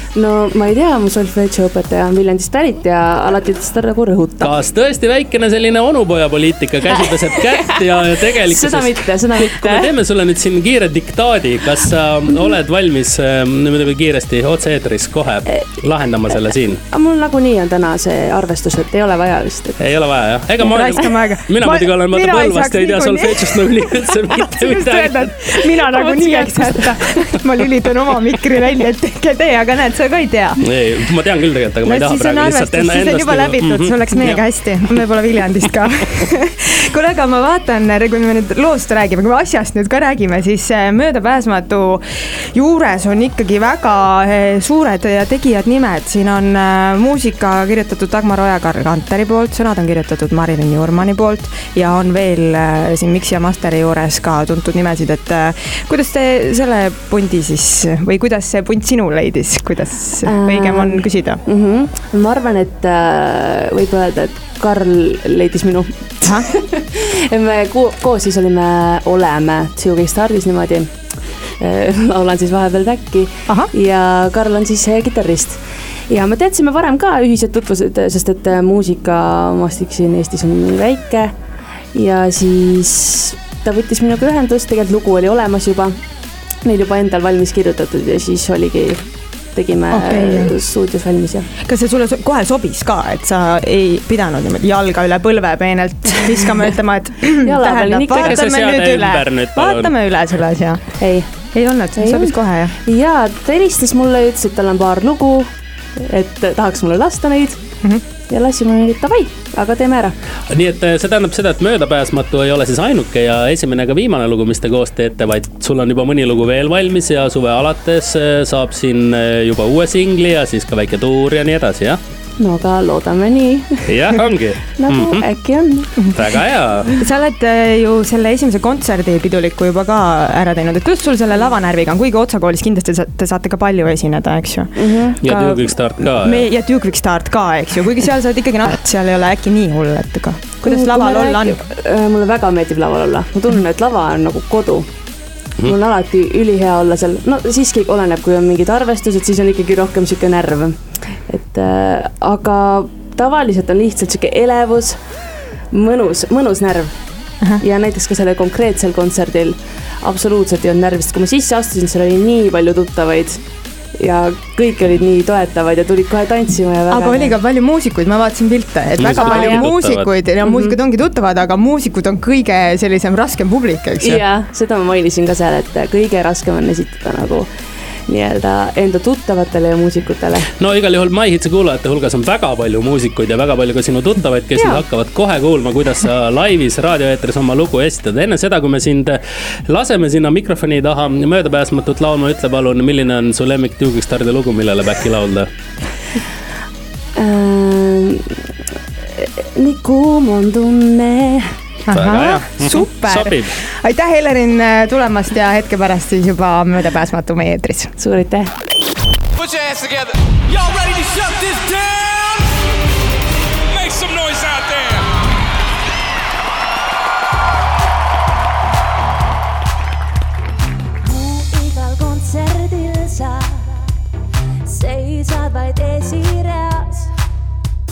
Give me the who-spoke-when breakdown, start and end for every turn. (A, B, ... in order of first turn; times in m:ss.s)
0:00.1-0:04.5 A
0:04.4-0:16.8 B
0:06.9-0:09.9 A
0:16.8-0:19.8 A
0:19.8-0:25.7 B
0:20.6-0:30.6 C
0:25.9-0:26.9 A
0:30.6-0:35.0 B
0:31.8-1:01.4 C
1:00.2-1:10.9 A
1:06.2-1:06.5 C
1:11.6-1:21.4 A
1:21.9-1:26.0 A
1:26.6-1:31.5 A
1:29.9-1:30.6 C
1:31.6-1:42.7 C
1:37.4-1:38.4 A
1:38.2-1:39.9 B
1:41.0-1:41.3 A
1:42.0-1:47.6 A
1:48.3-1:50.2 A
1:50.5-2:02.0 B
2:02.4-2:03.9 A
2:03.9-2:05.3 B
2:04.8-2:06.2 A
2:05.8-2:06.9 B
2:07.0-2:21.6 C
2:14.8-2:15.2 A
2:15.2-2:16.5 B
2:20.6-2:24.9 A
2:25.6-2:35.0 A
2:35.7-2:37.0 A
2:37.6-2:43.4 A
2:44.0-2:47.4 A
2:46.9-2:54.2 C
2:49.0-2:50.1 B
2:49.0-2:49.7 A
2:50.4-2:50.8 A
2:54.0-2:57.5 A
2:58.1-3:00.5 A
3:00.6-3:15.5 B
3:04.6-3:04.8 A
3:17.2-3:18.4 A
3:19.0-3:21.6 A
3:21.9-3:27.9 C
3:21.9-3:23.6 B
3:28.0-3:28.5 A
3:29.4-3:32.3 D
3:33.7-3:34.9 D
3:41.0-3:43.8 A
3:44.6-3:47.2 A